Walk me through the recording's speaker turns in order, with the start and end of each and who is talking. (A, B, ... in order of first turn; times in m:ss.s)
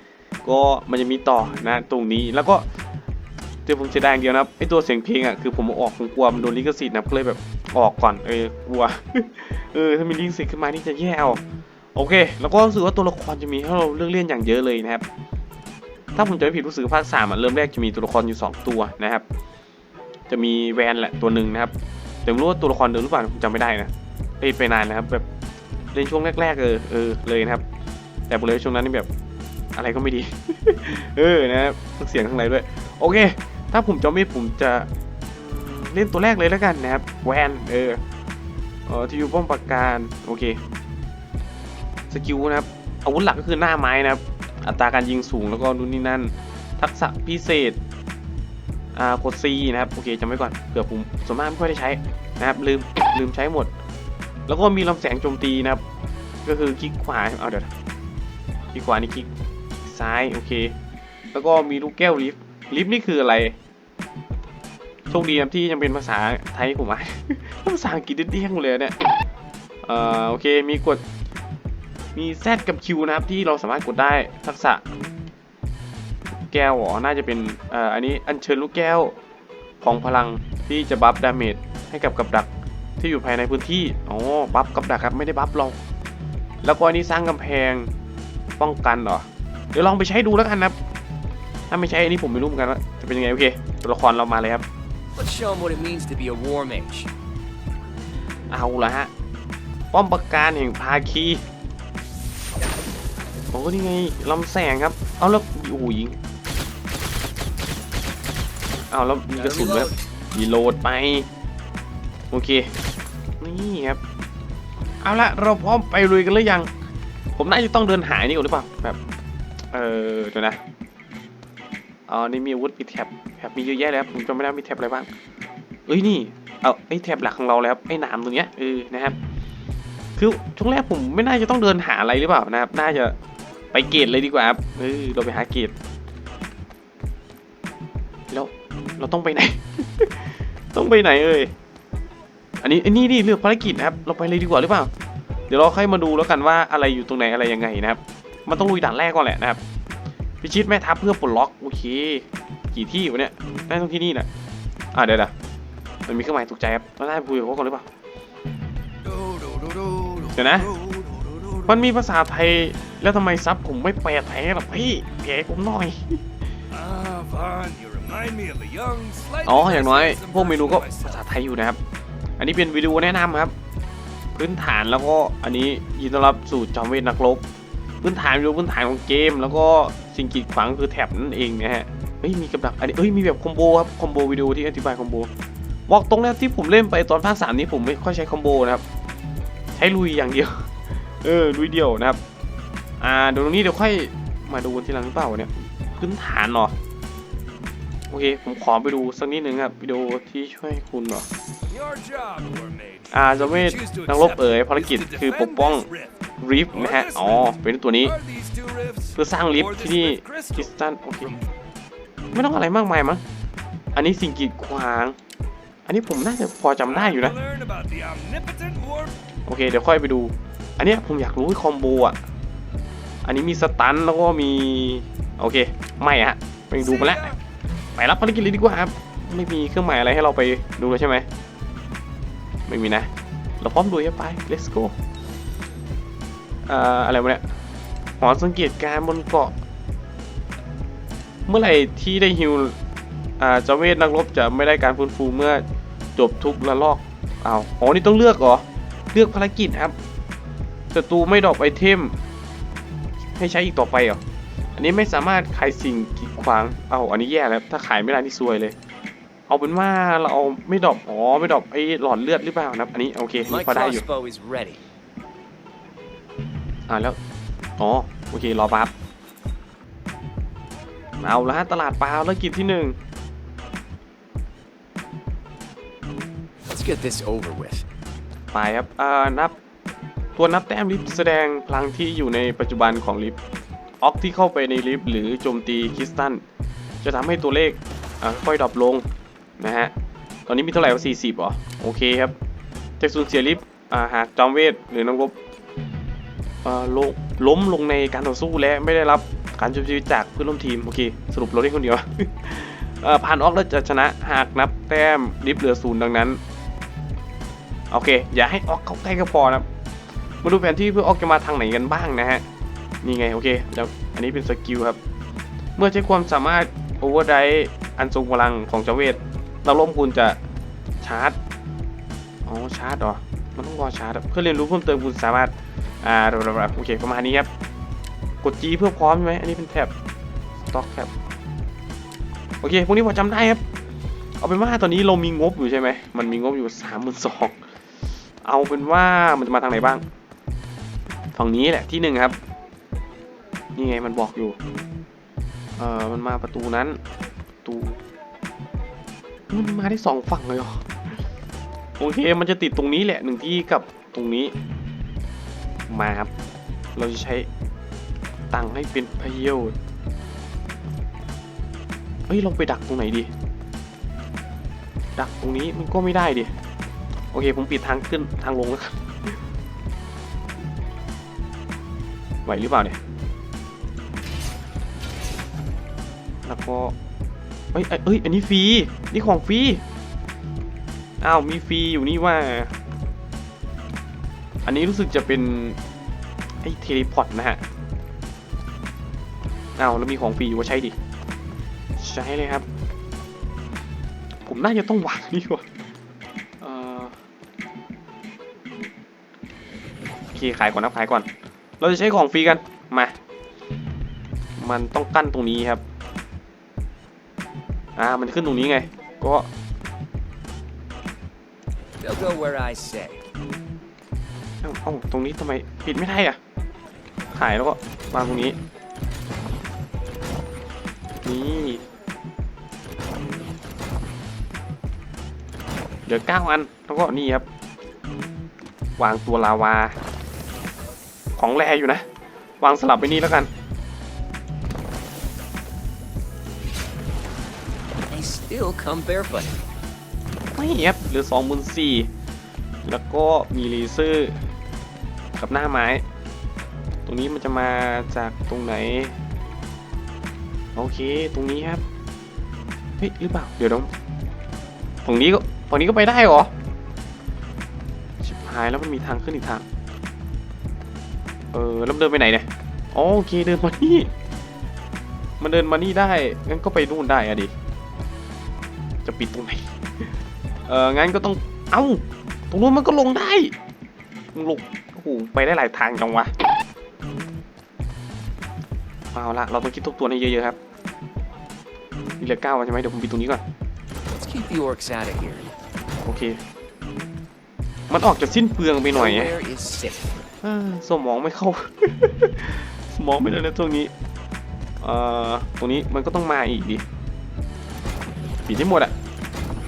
0:00.4-0:02.6 A
0:03.7-0:11.4 A
0:12.0-0:15.0 A
0:16.2-0:19.2 A
0:20.3-0:21.7 A
0:22.3-0:25.2 A
0:25.9-0:27.6 A
0:28.3-0:29.1 A
0:29.8-0:38.0 A
0:38.9-0:40.6 A
0:42.1-0:47.8 A
0:49.0-0:53.7 A
0:54.5-0:55.8 A
0:56.5-0:57.7 A
0:58.7-0:59.3 A
0:59.8-1:00.7 A
1:01.3-1:03.6 A
1:05.1-1:08.9 A
1:09.8-1:11.0 A
1:12.2-1:14.8 A
1:16.5-1:19.2 A
1:19.8-1:25.8 A
1:26.6-1:27.9 A
1:28.6-1:30.8 A
1:31.7-1:34.6 A
1:35.2-1:37.1 B
1:38.5-1:39.1 A
1:39.9-1:41.4 A
1:43.5-1:46.2 A
1:48.9-1:51.3 A
1:49.4-1:49.9 B
1:52.3-1:52.7 A
1:53.4-1:54.0 A
1:55.0-1:56.7 A
1:57.4-1:59.0 A
1:59.7-2:00.6 A
2:02.1-2:05.1 A
2:05.9-2:09.2 A
2:10.2-2:13.2 A
2:13.7-2:15.7 A
2:18.3-2:21.5 A
2:22.6-2:24.9 A
2:25.5-2:29.6 A
2:30.4-2:34.3 A
2:34.9-2:35.3 A
2:36.1-2:37.9 A
2:39.1-2:41.7 C
2:40.3-2:40.7 A
2:41.7-2:46.2 A
2:46.7-2:51.2 C
2:49.4-2:51.8 A
2:52.4-2:53.5 A
2:54.4-2:57.4 A
2:58.0-3:05.3 A
3:05.9-3:08.8 A
3:09.8-3:10.7 A
3:11.2-3:12.2 A
3:13.0-3:16.7 A
3:18.1-3:21.3 A
3:21.7-3:26.1 C
3:23.1-3:25.8 A
3:26.4-3:28.2 A
3:26.7-3:30.7 C
3:29.2-3:31.3 A
3:32.3-3:33.2 A
3:34.0-3:35.2 A
3:35.9-3:37.4 A
3:36.9-3:39.1 C
3:39.5-3:42.2 A
3:43.2-3:47.4 A
3:46.8-3:47.4 C
3:48.0-3:51.3 A
3:52.7-3:53.1 A
3:53.6-3:54.9 A
3:56.7-3:57.4 A
3:58.2-3:59.5 A
4:01.5-4:02.8 A
4:03.4-4:05.6 A
4:06.2-4:10.0 A
4:10.9-4:12.2 A
4:13.4-4:14.2 A
4:14.8-4:18.7 A
4:19.5-4:24.0 A
4:23.5-4:24.8 B
4:26.9-4:27.2 A
4:27.8-4:28.9 A
4:31.2-4:33.0 A
4:36.6-4:37.9 B
4:38.5-4:39.5 A
4:40.4-4:43.4 A
4:44.0-4:46.4 A
4:47.0-4:49.1 A
4:49.6-4:49.9 A
4:50.5-4:52.4 A
4:53.0-4:55.4 A
4:56.6-5:06.4 A
5:07.9-5:09.7 A
5:10.4-5:12.4 A
5:13.0-5:15.0 A
5:15.8-5:20.4 A
5:21.0-5:21.4 A
5:22.5-5:27.5 A
5:28.4-5:29.9 A
5:30.7-5:31.1 A
5:32.6-5:33.6 A
5:34.4-5:37.6 A
5:38.4-5:40.0 A
5:41.4-5:42.4 A
5:43.8-5:44.6 A
5:45.8-5:47.0 A
5:47.6-5:48.0 A
5:49.5-5:50.9 A
5:52.0-5:54.5 A
5:55.9-5:56.3 A
5:57.0-5:57.5 A
5:58.5-5:59.8 A
6:02.3-6:03.3 A
6:05.2-6:06.5 A
6:07.3-6:09.4 A
6:12.5-6:13.0 A
6:16.4-6:16.9 A
6:17.7-6:19.8 A
6:21.2-6:22.7 A
6:24.6-6:25.8 A
6:26.6-6:27.6 A
6:29.8-6:31.0 A
6:32.0-6:32.7 A
6:34.5-6:35.6 A
6:36.6-6:37.2 A
6:40.3-6:41.3 A
6:41.8-6:43.1 A
6:44.6-6:45.8 A
6:48.0-6:49.5 A
6:52.0-6:53.2 B
6:54.6-6:56.4 A
6:57.3-6:58.6 A
7:01.2-7:01.8 A
7:06.1-7:07.5 A
7:09.0-7:10.0 A
7:11.4-7:12.0 A
7:12.6-7:13.5 A
7:18.1-7:19.6 B
7:20.6-7:22.1 A
7:22.9-7:24.4 A
7:25.4-7:26.0 A
7:27.1-7:29.2 A
7:30.8-7:31.8 A
7:33.0-7:33.9 A
7:35.0-7:36.5 A
7:38.2-7:39.6 A
7:41.5-7:44.1 A
7:45.4-7:47.5 A
7:49.0-7:50.1 A
7:50.7-7:53.5 A
7:54.3-7:56.3 A
7:59.1-8:00.6 A
8:02.2-8:03.4 A
8:04.1-8:05.5 B
8:06.0-8:06.4 A
8:07.9-8:09.3 A
8:08.9-8:10.2 B
8:10.4-8:13.9 A
8:14.8-8:16.8 A
8:18.5-8:18.9 A